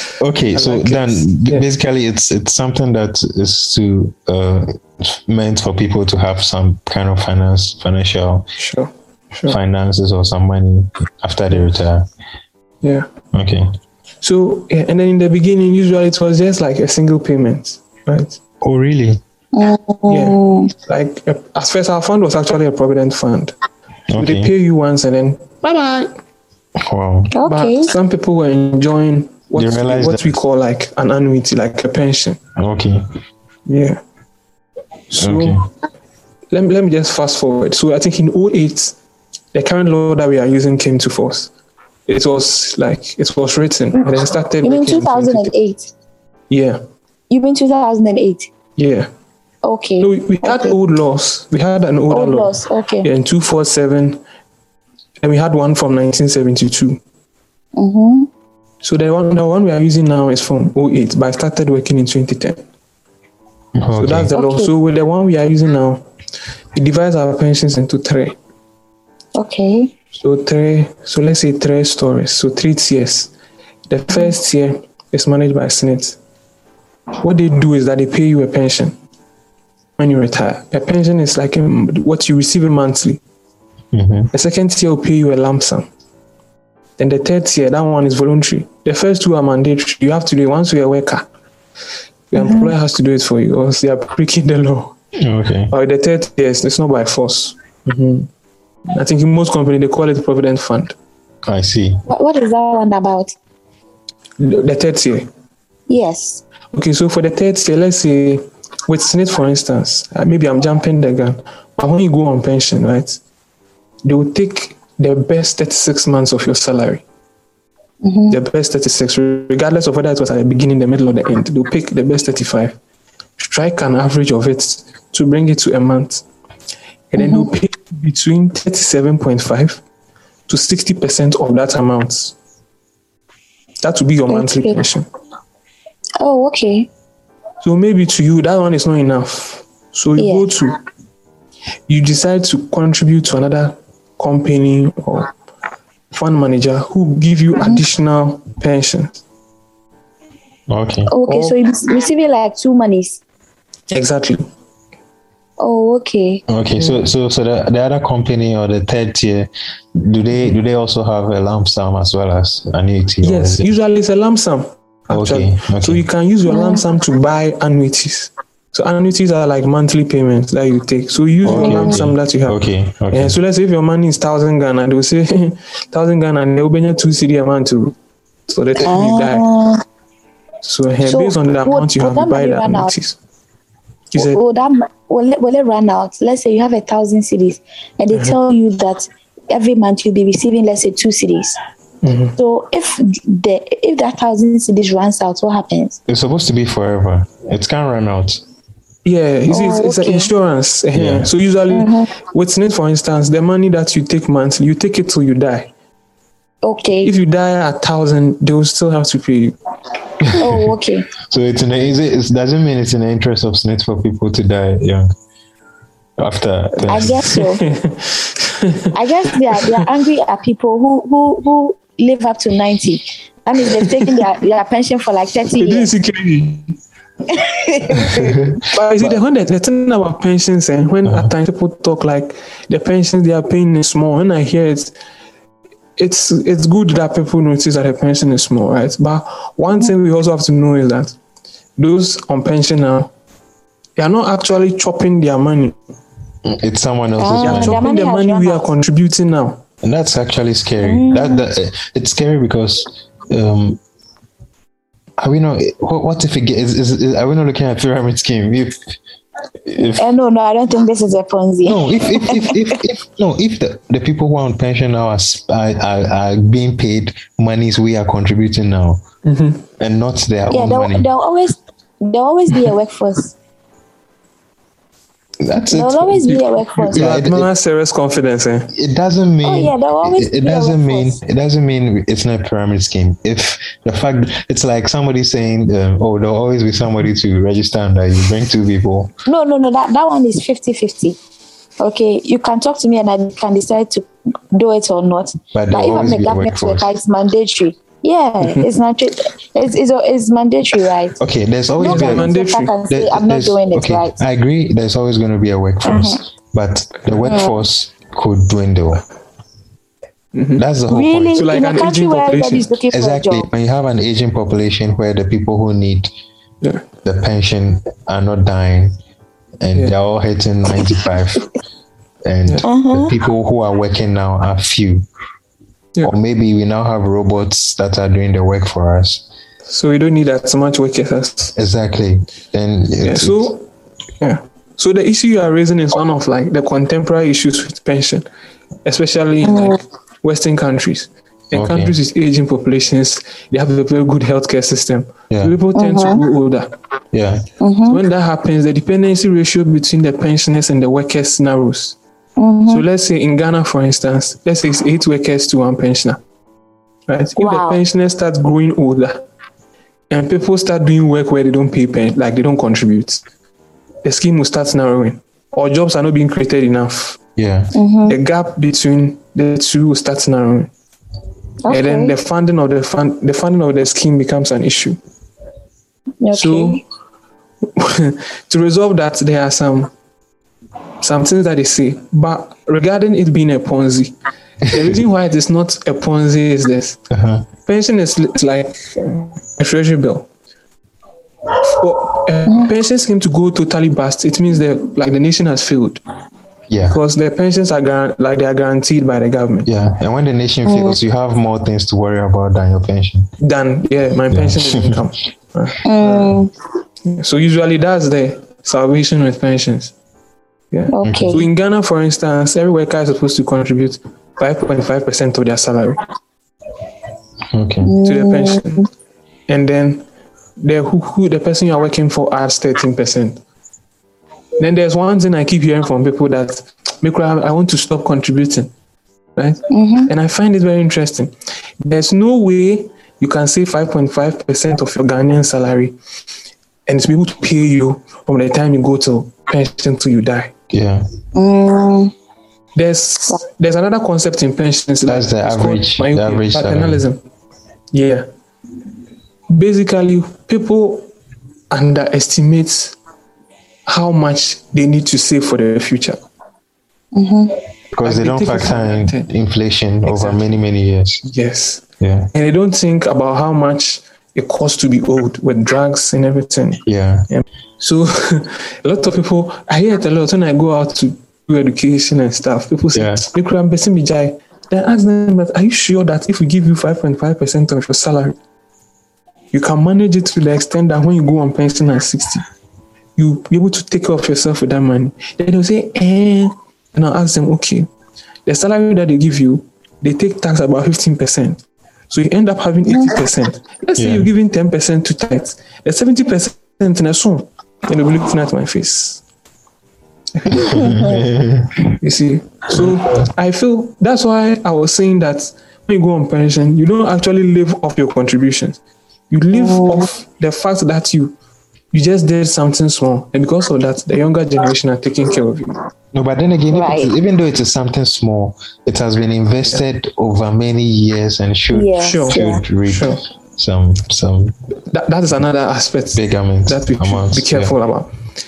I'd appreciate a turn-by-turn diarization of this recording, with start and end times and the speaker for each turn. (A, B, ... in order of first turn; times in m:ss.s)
0:00.2-0:08.5 A
0:00.5-0:01.7 B
0:08.6-0:09.6 B
0:09.5-0:12.1 A
0:13.3-0:13.7 A
0:14.2-0:18.4 B
0:18.6-0:19.2 A
0:19.5-0:20.7 C
0:20.1-0:23.5 B
0:24.1-0:24.5 A
0:24.2-0:26.1 B
0:26.8-0:27.3 A
0:27.4-0:27.9 C
0:27.4-0:32.4 B
0:29.6-0:30.4 A
0:32.6-0:33.0 A
0:33.7-0:34.0 B
0:35.1-0:35.6 B
0:35.2-0:35.7 A
0:36.5-0:39.0 B
0:39.5-0:41.5 B
0:42.1-0:45.5 B
0:44.6-0:45.9 C
0:46.5-0:46.8 B
0:47.3-0:48.5 C
0:48.8-0:49.1 B
0:49.6-0:50.8 C
0:50.0-0:54.2 B
0:52.1-0:53.1 C
0:55.2-0:57.0 B
0:57.8-0:58.3 C
0:58.8-1:02.6 B
1:03.8-1:04.3 A
1:04.0-1:06.0 B
1:04.3-1:04.7 C
1:06.8-1:08.4 B
1:09.4-1:09.9 C
1:10.1-1:13.3 B
1:13.9-1:16.2 B
1:17.2-1:19.0 B
1:20.0-1:23.2 B
1:23.9-1:24.3 A
1:24.3-1:25.9 B
1:27.0-1:31.3 B
1:32.3-1:35.0 B
1:32.4-1:32.7 C
1:35.2-1:35.7 A
1:35.7-1:38.3 B
1:38.9-1:41.0 B
1:41.5-1:42.0 A
1:42.1-1:43.3 C
1:44.4-1:45.3 B
1:45.9-1:46.4 C
1:46.7-1:53.2 B
1:54.0-1:57.0 B
1:58.0-1:58.4 C
1:58.3-2:02.8 B
2:03.4-2:06.2 B
2:07.1-2:09.8 B
2:07.2-2:07.5 C
2:10.5-2:12.4 B
2:13.8-2:15.1 B
2:14.3-2:14.8 C
2:16.2-2:16.9 C
2:17.6-2:20.8 B
2:20.2-2:20.5 C
2:21.9-2:25.3 B
2:26.1-2:29.2 B
2:30.7-2:31.1 A
2:31.1-2:33.2 C
2:31.3-2:31.6 B
2:33.9-2:34.5 B
2:35.6-2:37.0 C
2:36.5-2:43.7 A
2:43.2-2:58.0 B
2:45.1-2:46.0 A
2:46.5-2:46.8 C
2:51.4-2:53.4 A
2:51.5-2:52.0 C
2:58.5-2:59.4 B
2:58.8-2:59.8 C
3:00.6-3:03.2 B
3:01.0-3:02.9 C
3:04.1-3:04.4 B
3:04.2-3:11.6 C
3:12.0-3:12.4 B
3:12.4-3:16.0 C
3:16.1-3:18.4 A
3:19.0-3:25.7 B
3:19.5-3:20.3 C
3:20.9-3:21.3 A
3:21.7-3:22.1 C
3:26.6-3:27.1 C
3:27.0-3:29.6 B
3:30.2-3:30.8 A
3:30.3-3:31.1 C
3:31.3-3:35.1 A
3:36.2-3:37.2 A
3:36.9-3:37.6 C
3:36.9-3:39.8 B
3:38.9-3:45.9 C
3:43.6-3:44.2 B
3:45.5-3:46.8 B
3:47.3-3:48.4 C
3:47.9-3:49.2 A
3:48.6-3:54.9 B
3:51.0-3:51.3 A
3:56.0-4:01.2 B
4:01.8-4:03.1 B
4:04.0-4:05.8 B
4:06.4-4:07.8 A
4:07.2-4:08.7 C
4:07.4-4:09.6 B
4:09.8-4:13.8 A
4:10.8-4:11.4 C
4:15.2-4:18.8 A
4:19.7-4:20.1 A
4:19.8-4:22.8 C
4:21.6-4:29.0 A
4:29.2-4:29.6 B
4:29.8-4:31.1 A
4:30.5-4:33.3 C
4:35.4-4:36.3 A
4:35.6-4:37.0 C
4:36.3-4:38.7 B
4:36.9-4:37.5 A
4:38.7-4:49.1 A
4:39.4-4:41.2 C
4:49.3-4:51.2 C
4:51.8-5:01.2 C
4:55.5-4:56.9 A
4:58.4-4:58.7 B
5:01.2-5:02.3 A
5:01.8-5:02.7 B
5:01.8-5:04.2 C
5:02.9-5:09.0 A
5:05.8-5:06.2 C
5:07.2-5:07.6 C
5:10.3-5:10.6 B
5:10.6-5:11.5 A
5:10.9-5:13.5 C
5:11.4-5:12.7 B
5:12.9-5:16.1 A
5:17.0-5:19.0 A
5:19.6-5:21.4 A
5:22.2-5:25.1 A
5:22.6-5:23.2 C
5:26.0-5:29.2 A
5:29.7-5:31.6 B
5:31.6-5:33.5 A
5:33.0-5:33.7 B
5:34.2-5:38.2 B
5:38.8-5:46.7 B
5:39.4-5:39.8 C
5:41.5-5:42.0 A
5:45.3-5:45.6 A
5:45.8-5:46.2 C
5:47.1-5:47.5 A
5:47.6-5:48.0 C
5:47.9-5:52.0 B
5:52.4-5:52.8 C
5:52.7-5:56.2 B
5:57.1-5:59.2 B
5:57.4-5:57.8 C
6:00.1-6:03.2 B
6:04.0-6:07.2 B
6:07.4-6:07.7 A
6:07.7-6:08.2 C
6:08.1-6:10.7 B
6:11.6-6:12.1 C
6:11.7-6:15.0 B
6:16.2-6:16.8 C
6:16.3-6:16.8 B
6:17.8-6:19.9 B
6:21.0-6:24.2 B
6:24.7-6:25.0 A
6:24.7-6:27.0 B
6:27.1-6:27.5 A
6:27.7-6:30.3 B
6:31.6-6:36.0 B
6:32.5-6:32.7 C
6:36.7-6:37.0 A
6:36.8-6:39.7 B
6:39.7-6:43.3 A
6:40.7-6:41.0 C
6:43.4-6:46.4 B
6:44.3-6:45.0 A
6:45.8-6:46.5 C
6:47.1-6:49.9 B
6:50.7-6:56.0 B
6:50.9-6:51.4 C
6:51.0-6:51.4 A
6:57.5-6:57.9 A
6:57.8-6:58.8 C
6:58.0-6:58.9 B
6:59.5-7:00.0 B
7:00.6-7:03.4 B
7:04.6-7:08.7 B
7:09.4-7:16.0 B
7:09.7-7:10.1 C
7:16.9-7:20.5 B
7:20.7-7:21.0 A
7:21.4-7:22.1 C
7:22.8-7:27.2 B
7:25.1-7:27.1 A
7:27.9-7:28.2 B
7:29.5-7:31.1 B
7:31.7-7:33.0 B
7:33.9-7:36.2 B
7:37.1-7:37.6 C
7:38.0-7:41.2 A
7:38.0-7:39.3 B
7:40.1-7:40.4 B
7:41.2-7:41.8 B
7:42.0-7:42.3 A
7:42.3-7:58.4 B
7:46.8-7:47.3 A
7:52.9-7:53.2 A
7:59.5-8:02.4 B
8:03.2-8:07.9 B
8:08.5-8:19.2 B
8:14.0-8:14.3 A
8:20.4-8:21.2 B
8:20.5-8:22.0 A
8:22.0-8:31.4 B
8:22.7-8:23.3 A
8:29.5-8:30.1 C
8:31.9-8:35.8 B
8:36.1-8:44.5 A
8:36.7-8:37.1 C
8:41.7-8:42.6 C
8:42.0-8:43.2 B
8:44.9-8:48.1 B
8:46.2-8:47.7 A